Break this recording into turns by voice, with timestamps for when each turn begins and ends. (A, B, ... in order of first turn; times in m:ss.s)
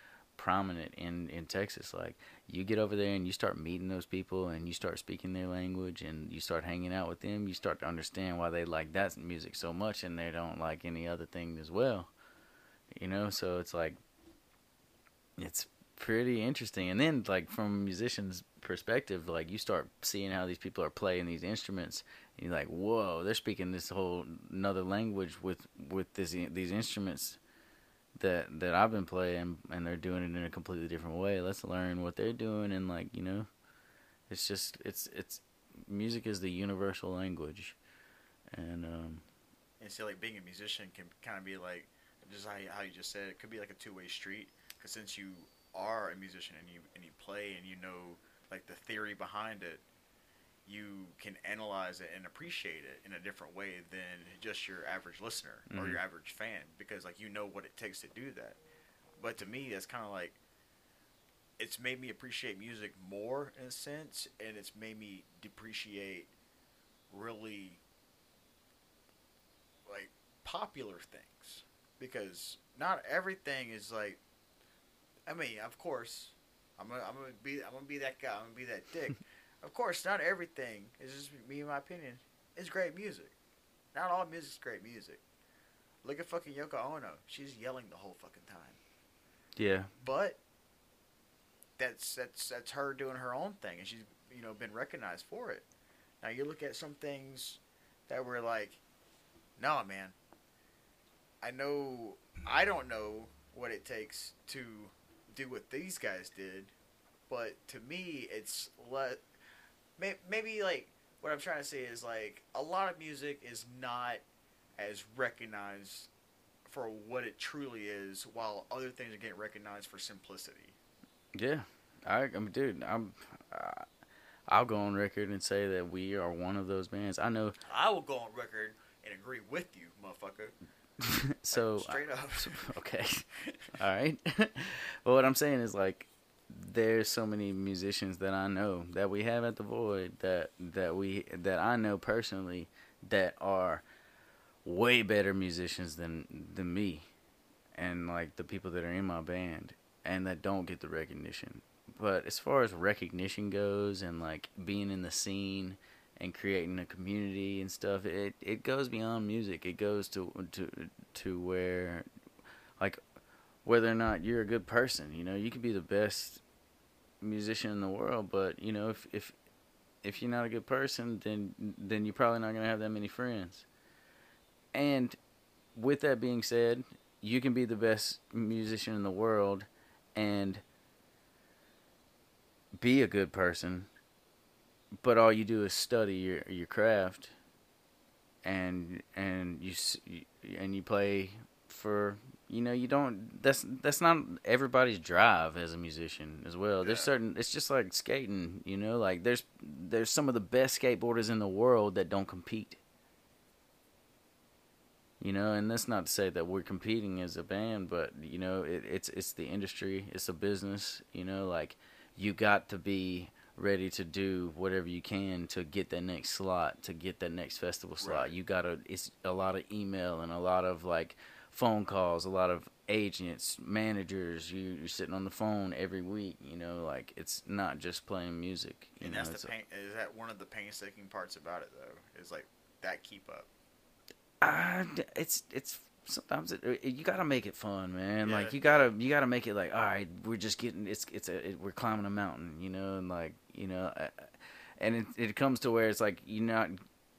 0:00.4-0:12.1 A
0:12.9-0:14.0 A
0:15.4-0:27.4 A
0:28.2-0:33.5 A
0:34.3-0:37.8 A
0:38.5-0:39.2 A
0:39.8-0:49.8 B
0:50.7-0:58.6 B
0:55.7-0:56.0 A
0:59.2-1:00.4 B
1:01.6-1:06.3 B
1:07.1-1:07.8 B
1:09.9-1:14.2 B
1:15.3-1:23.3 B
1:23.9-1:25.2 B
1:26.0-1:28.8 B
1:29.6-1:29.9 A
1:30.0-1:30.4 B
1:31.8-1:35.6 B
1:36.2-1:38.8 B
1:39.6-1:40.2 B
1:41.4-1:46.7 B
1:47.3-1:49.2 B
1:50.0-1:54.2 B
1:54.8-1:56.1 B
1:56.6-2:00.8 B
2:01.4-2:03.9 A
2:04.5-2:07.6 A
2:07.7-2:10.6 B
2:11.0-2:13.2 A
2:11.5-2:12.7 B
2:13.4-2:13.7 B
2:13.8-2:23.8 A
2:24.6-2:27.1 A
2:27.8-2:42.1 A
2:43.6-2:46.4 A
2:47.2-2:49.4 A
2:50.0-2:53.7 A
2:54.7-2:55.2 A
2:55.8-3:00.6 A
3:02.8-3:03.9 A
3:05.0-3:07.3 A
3:08.4-3:22.8 A
3:16.8-3:17.1 B
3:25.2-3:49.5 A
3:38.0-3:38.3 B
3:49.0-3:53.5 B
3:54.4-4:06.8 A
3:58.2-3:58.9 B